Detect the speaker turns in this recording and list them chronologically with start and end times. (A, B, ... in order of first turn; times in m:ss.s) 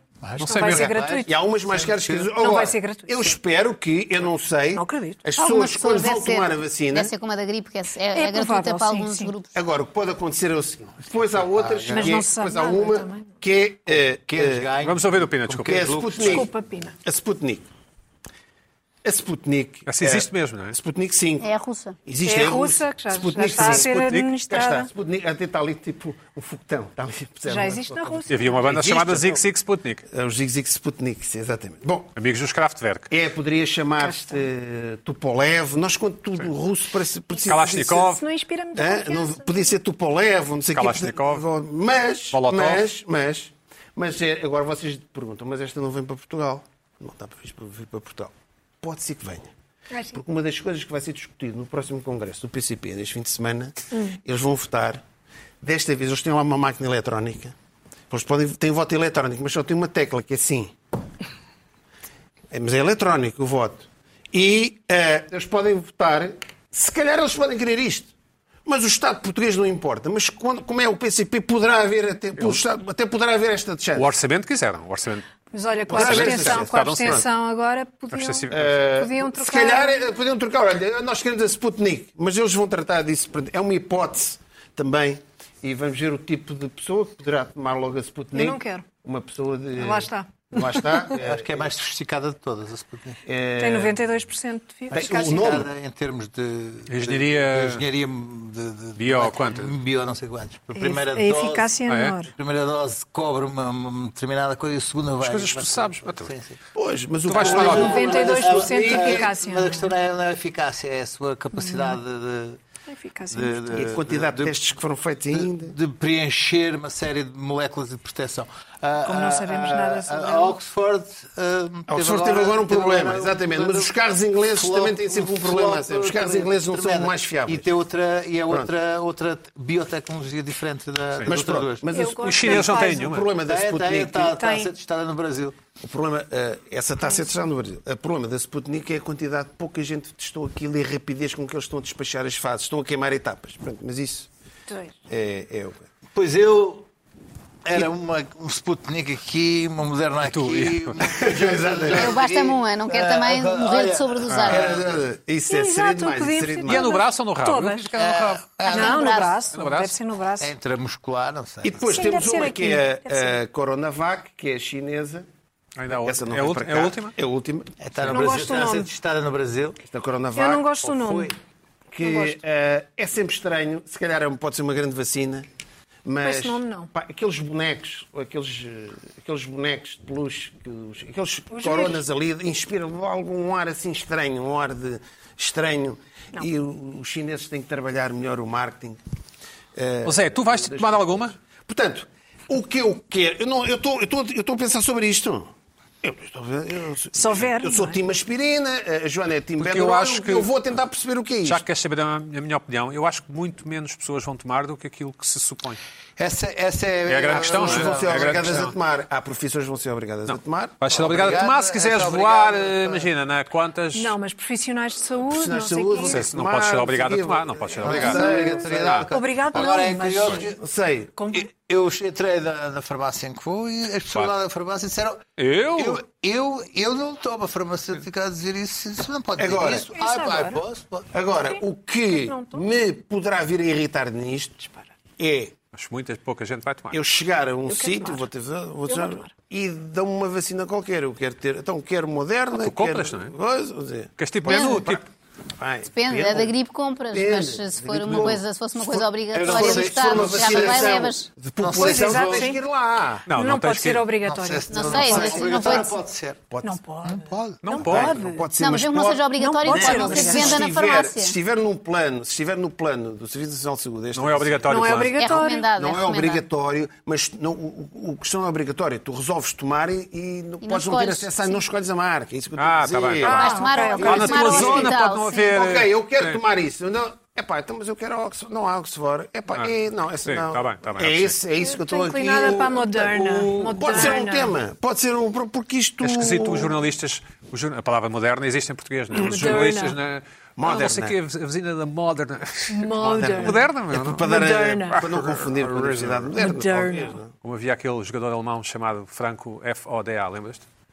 0:00.2-0:02.3 A
0:00.4-0:00.9 B
0:00.4-0:01.3 C
0:01.2-0:07.1 D
0:02.3-0:03.3 C
0:04.7-0:05.2 C
0:05.4-0:09.5 E
0:08.1-0:09.3 C
0:09.5-0:14.7 D
0:11.6-0:12.2 A
0:11.9-0:13.3 C
0:14.3-0:16.5 A
0:14.8-0:15.8 B
0:15.6-0:16.5 D
0:16.2-0:17.0 C
0:17.0-0:17.7 D
0:19.0-0:21.5 D
0:19.9-0:20.8 B
0:21.4-0:22.0 E
0:22.0-0:29.4 D
0:22.2-0:24.9 C
0:23.5-0:24.3 B
0:27.4-0:28.6 C
0:28.3-0:30.0 B
0:30.1-0:32.1 D
0:32.2-0:33.1 B
0:33.1-0:38.1 D
0:34.0-0:34.4 C
0:37.4-0:38.2 B
0:37.9-0:39.8 C
0:38.7-0:49.5 D
0:40.7-0:41.4 B
0:42.3-0:42.8 B
0:49.9-0:50.2 C
0:50.1-0:55.0 D
0:55.6-0:57.5 D
0:58.1-1:00.7 D
1:02.5-1:08.1 D
1:08.6-1:14.1 D
1:13.9-1:15.2 B
1:15.5-1:20.0 C
1:15.9-1:17.2 D
1:15.9-1:17.2 B
1:18.1-1:18.8 B
1:18.5-1:31.7 D
1:28.3-1:28.8 C
1:29.8-1:31.1 C
1:31.2-1:33.2 A
1:33.2-1:34.0 D
1:33.6-1:35.5 C
1:34.9-1:35.7 D
1:34.9-1:41.8 A
1:36.9-1:37.8 B
1:39.0-1:39.7 B
1:40.7-1:42.3 C
1:41.9-1:42.1 B
1:42.3-1:46.6 A
1:45.2-1:46.3 B
1:46.7-1:49.3 D
1:47.3-1:48.0 B
1:47.3-1:52.6 A
1:47.5-1:49.9 C
1:51.6-1:52.0 C
1:52.9-1:53.8 C
1:53.3-1:54.5 A
1:53.7-1:55.7 D
1:55.3-2:03.9 A
1:59.0-2:00.6 C
2:01.9-2:07.7 D
2:04.5-2:11.9 A
2:11.2-2:14.4 D
2:11.9-2:13.2 C
2:12.2-2:13.3 B
2:13.4-2:15.6 A
2:14.3-2:14.7 C
2:15.8-2:24.3 D
2:24.7-2:25.0 C
2:25.1-2:25.9 D
2:26.1-2:26.9 A
2:27.6-2:34.9 A
2:30.2-2:31.1 B
2:31.2-2:32.2 D
2:31.9-2:34.7 E
2:34.3-2:34.6 B
2:34.5-2:36.9 D
2:35.5-2:37.9 C
2:36.6-2:38.7 B
2:38.0-2:39.4 A
2:38.7-2:40.5 C
2:38.7-2:39.3 E
2:39.5-2:40.0 B
2:40.4-2:41.8 A
2:41.6-2:45.3 D
2:41.9-2:43.4 C
2:45.8-2:47.1 B
2:45.9-2:47.7 D
2:47.8-2:49.8 A
2:48.1-2:48.9 C
2:49.9-2:50.7 D
2:50.3-2:51.3 C
2:50.8-2:51.3 A
2:51.9-2:55.5 D
2:52.0-2:52.4 C
2:56.0-3:09.0 D
2:56.2-2:56.9 C
3:01.5-3:02.0 C
3:09.7-3:21.6 D
3:10.0-3:11.4 B
3:17.1-3:18.0 C
3:19.6-3:20.5 B
3:21.4-3:25.8 B
3:26.2-3:28.6 A
3:27.0-3:28.7 B
3:27.3-3:31.0 D
3:30.3-3:34.1 B
3:30.9-3:33.1 A
3:33.9-3:36.2 C
3:35.3-3:39.0 D
3:36.0-3:39.1 B
3:37.8-3:40.6 A
3:39.1-3:40.5 C
3:40.5-3:41.1 D
3:41.2-3:41.5 C
3:41.3-3:51.1 A
3:45.4-3:46.0 B
3:49.4-3:49.9 D
3:49.9-3:50.6 C
3:51.1-3:55.5 D
3:51.5-3:52.6 C
3:55.7-3:57.0 B
3:56.9-4:05.0 D
3:57.7-3:58.2 C
3:58.9-3:59.3 C
4:02.6-4:03.3 B
4:04.2-4:05.0 B
4:04.5-4:04.8 E
4:05.6-4:06.5 D
4:05.9-4:11.3 E
4:07.1-4:13.3 D
4:09.3-4:12.5 A
4:11.7-4:12.6 C
4:13.3-4:14.1 B
4:13.3-4:15.9 C
4:14.2-4:16.5 A
4:14.7-4:15.9 E
4:15.0-4:15.7 D
4:16.5-4:16.8 D
4:16.6-4:18.4 C
4:17.1-4:17.9 A
4:17.6-4:18.2 B
4:17.8-4:25.0 D
4:18.6-4:21.3 E
4:19.4-4:20.6 C
4:24.1-4:25.2 B
4:24.7-4:25.7 C
4:25.2-4:26.4 E
4:25.8-4:46.7 D
4:30.6-4:31.6 E
4:32.6-4:36.4 B
4:33.2-4:34.7 C
4:33.2-4:35.5 E
4:40.2-4:41.4 B
4:41.6-4:44.5 C
4:46.0-4:54.3 B
4:49.2-4:49.7 D
4:49.2-4:50.0 C
4:50.6-4:51.2 D
4:52.7-4:53.6 C
4:53.0-4:57.3 D
4:54.2-4:55.0 C
4:54.9-4:56.4 B
4:56.4-4:57.2 C
4:57.4-5:00.6 B